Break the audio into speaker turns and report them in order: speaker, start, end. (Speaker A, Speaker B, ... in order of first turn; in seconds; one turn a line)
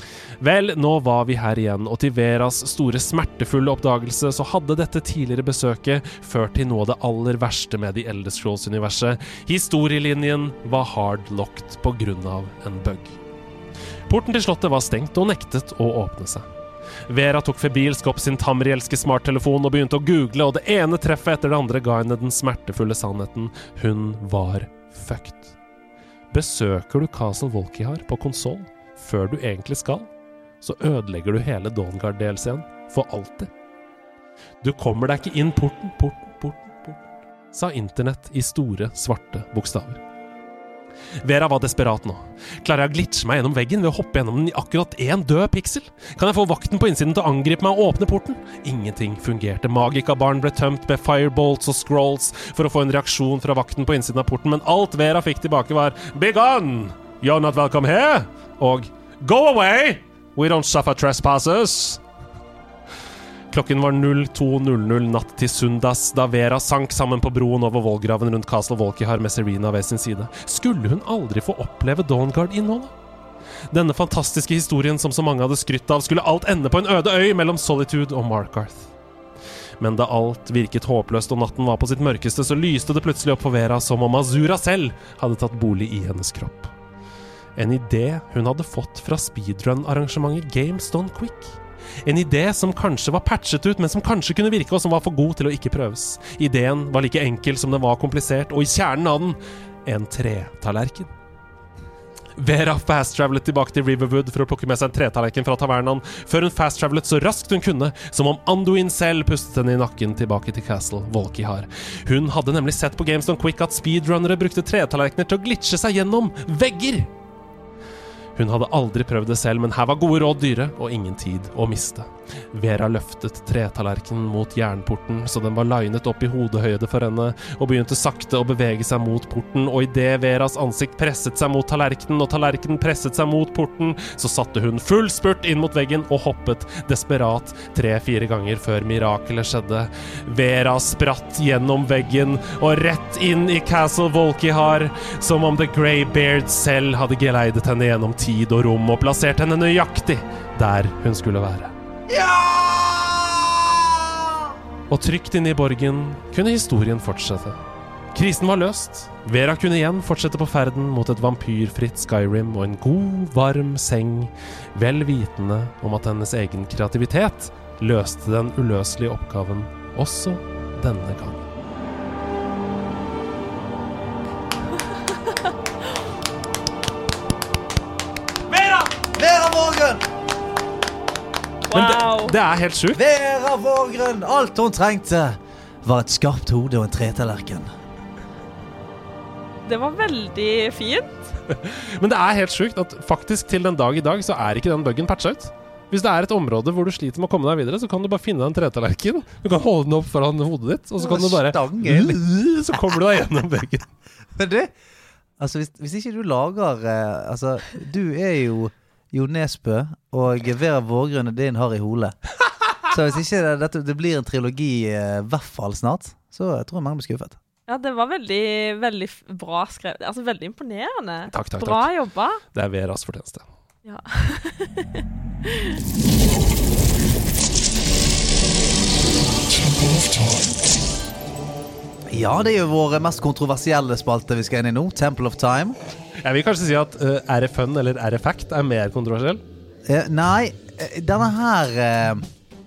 Speaker A: 0.4-13.2
Speaker A: 14.1-16.4
Speaker A: 17.1-25.5
Speaker A: 26.3-30.1
Speaker A: 30.6-33.5
Speaker A: 34.6-37.0
Speaker A: 37.5-40.0
Speaker A: 41.2-62.0
Speaker A: 63.5-72.9
Speaker A: 73.7-78.9
Speaker A: 79.8-86.7
Speaker A: 87.5-101.1
Speaker A: 102.4-117.1
Speaker A: 118.3-151.7
Speaker B: 152.1-154.3
Speaker A: 154.9-157.6
Speaker A: 158.1-171.4
Speaker B: 178.5-180.0
Speaker C: 181.7-182.3
Speaker A: 181.7-183.0
Speaker B: 182.9-187.7
Speaker C: 189.7-191.1
Speaker A: 191.5-203.9
Speaker B: 201.0-202.2
Speaker B: 204.3-204.7
Speaker B: 205.4-212.1
Speaker B: 212.9-217.4
Speaker C: 217.7-222.4
Speaker A: 221.3-221.9
Speaker A: 222.5-223.4
Speaker C: 223.8-225.8
Speaker B: 232.1-235.8
Speaker A: 236.2-239.4
Speaker B: 239.9-242.2